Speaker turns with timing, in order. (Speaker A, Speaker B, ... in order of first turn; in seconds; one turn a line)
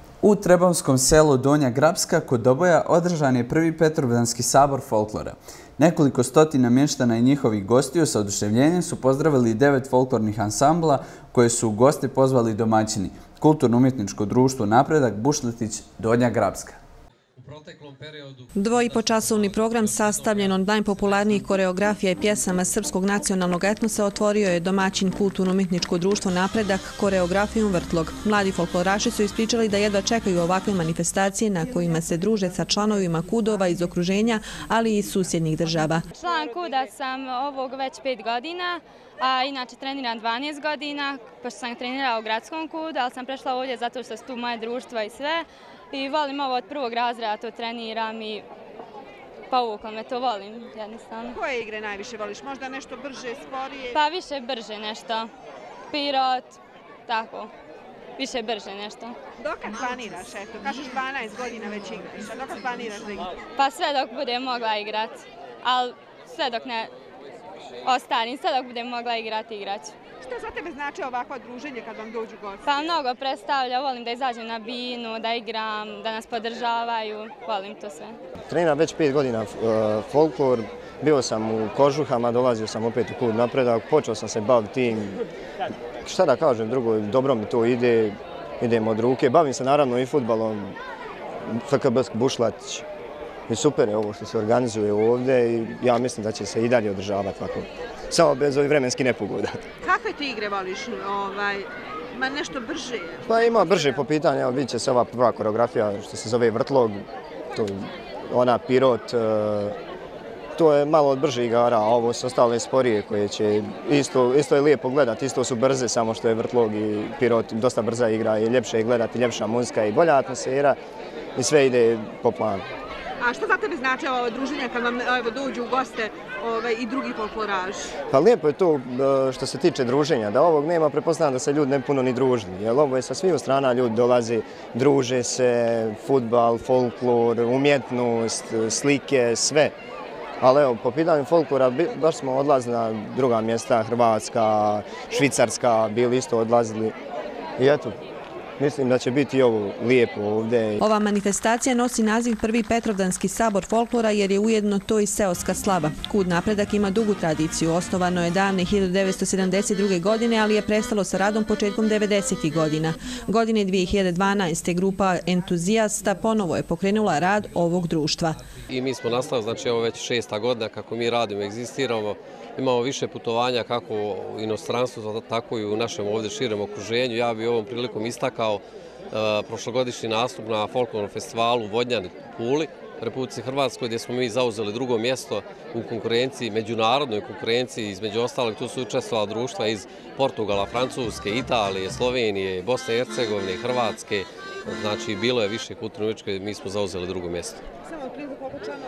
Speaker A: 0.2-16.8
Speaker B: 18.6-36.0
Speaker C: 36.2-48.5
Speaker C: 49.5-51.4
Speaker D: 51.4-54.0
Speaker C: 54.0-55.3
Speaker C: 55.9-57.5
Speaker C: 58.2-59.2
Speaker D: 59.4-63.4
Speaker C: 63.6-66.9
Speaker C: 67.8-70.0
Speaker D: 70.2-72.7
Speaker C: 72.6-78.2
Speaker E: 78.5-85.2
Speaker E: 86.0-90.8
Speaker E: 91.5-92.9
Speaker E: 93.5-99.7
Speaker D: 99.8-103.2
Speaker E: 103.3-109.8
Speaker E: 110.6-120.8
Speaker E: 121.4-122.7
Speaker D: 123.2-127.9
Speaker E: 128.1-139.7
Speaker E: 140.4-146.9
Speaker E: 147.6-148.0
Speaker E: 148.6-150.8
Speaker B: 150.8-168.4
Speaker F: 168.7-197.6
Speaker D: 197.9-198.5